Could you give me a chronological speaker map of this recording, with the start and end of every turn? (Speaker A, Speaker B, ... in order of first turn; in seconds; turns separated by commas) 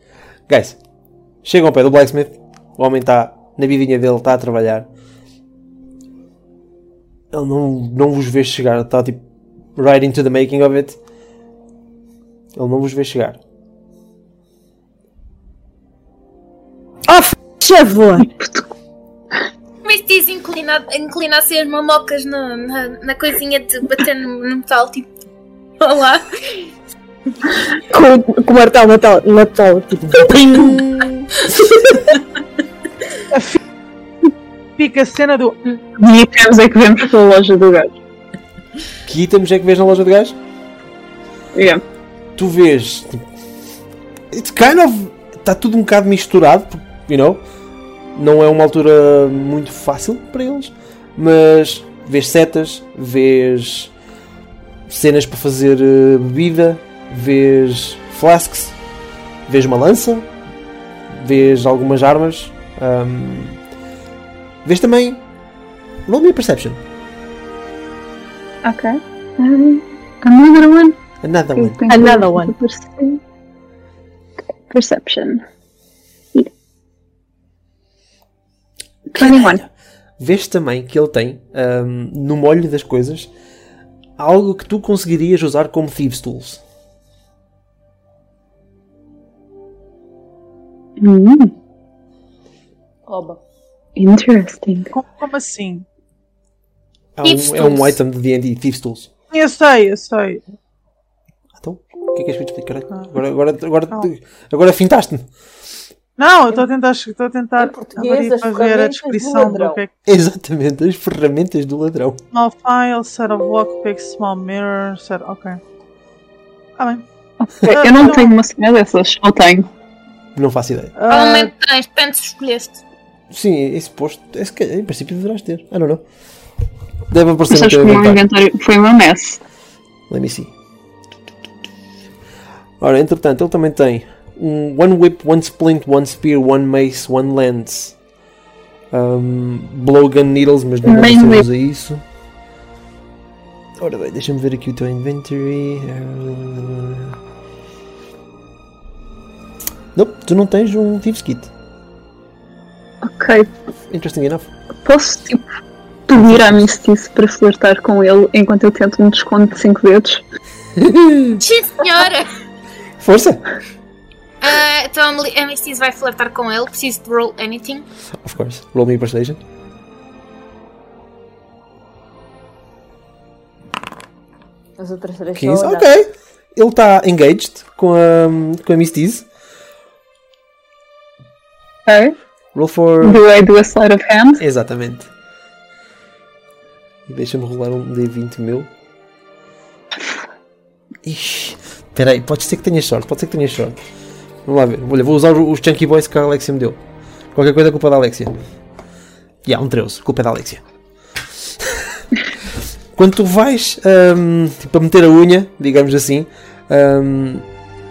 Speaker A: 0.5-0.8, Speaker A: 1.4-4.9, Speaker A: 7.3-9.2, Speaker A: 9.8-11.0, Speaker A: 12.6-13.4, Speaker B: 17.1-18.3, Speaker C: 18.3-18.6, Speaker D: 19.8-25.1, Speaker D: 25.8-26.6, Speaker B: 27.9-30.8, Speaker A: 30.0-31.5, Speaker B: 31.6-32.0, Speaker E: 33.3-33.6, Speaker E: 34.8-35.6, Speaker C: 36.0-37.9, Speaker A: 39.0-40.4, Speaker C: 41.5-41.8, Speaker A: 42.4-43.2, Speaker A: 44.3-47.4, Speaker A: 48.1-53.9, Speaker A: 54.9-58.7, Speaker A: 59.5-60.3, Speaker A: 61.1-63.6, Speaker A: 64.6-65.2, Speaker A: 66.1-66.8, Speaker C: 68.6-71.0, Speaker A: 71.2-71.8, Speaker C: 71.5-73.2, Speaker B: 71.9-72.5, Speaker C: 74.7-75.4, Speaker C: 79.1-79.6, Speaker A: 79.2-79.7, Speaker A: 80.2-83.3, Speaker A: 84.2-86.6, Speaker C: 91.0-91.5, Speaker F: 93.1-93.4, Speaker C: 94.0-94.9, Speaker E: 94.9-95.8, Speaker A: 97.2-99.1, Speaker D: 97.2-98.0, Speaker E: 99.3-100.4, Speaker A: 101.6-105.3, Speaker E: 106.2-109.9, Speaker F: 107.6-109.8, Speaker A: 110.0-112.2, Speaker E: 112.3-115.6, Speaker E: 116.8-117.0, Speaker C: 117.4-119.7, Speaker E: 117.6-118.3, Speaker A: 120.3-120.9, Speaker E: 121.0-121.5, Speaker D: 121.1-122.8, Speaker A: 123.3-126.0, Speaker A: 127.1-128.2, Speaker C: 127.5-129.4, Speaker A: 130.1-130.5, Speaker A: 132.8-137.9, Speaker A: 138.9-142.0, Speaker C: 140.8-141.4, Speaker A: 143.8-147.2, Speaker A: 149.9-151.5, Speaker C: 153.0-153.5, Speaker A: 153.9-154.5, Speaker C: 154.8-155.4, Speaker C: 156.1-160.2, Speaker A: 156.2-156.6, Speaker A: 160.8-161.4, Speaker D: 161.4-162.3, Speaker A: 163.0-163.4, Speaker D: 164.4-167.8, Speaker A: 168.2-169.4, Speaker F: 174.8-175.9, Speaker A: 175.3-179.2, Speaker C: 181.8-182.1, Speaker A: 182.5-183.2, Speaker C: 183.0-184.4, Speaker A: 184.4-185.1, Speaker A: 187.1-188.7, Speaker A: 191.0-193.8, Speaker A: 194.4-196.8, Speaker A: 197.3-198.3, Speaker A: 199.4-200.6, Speaker A: 202.9-207.4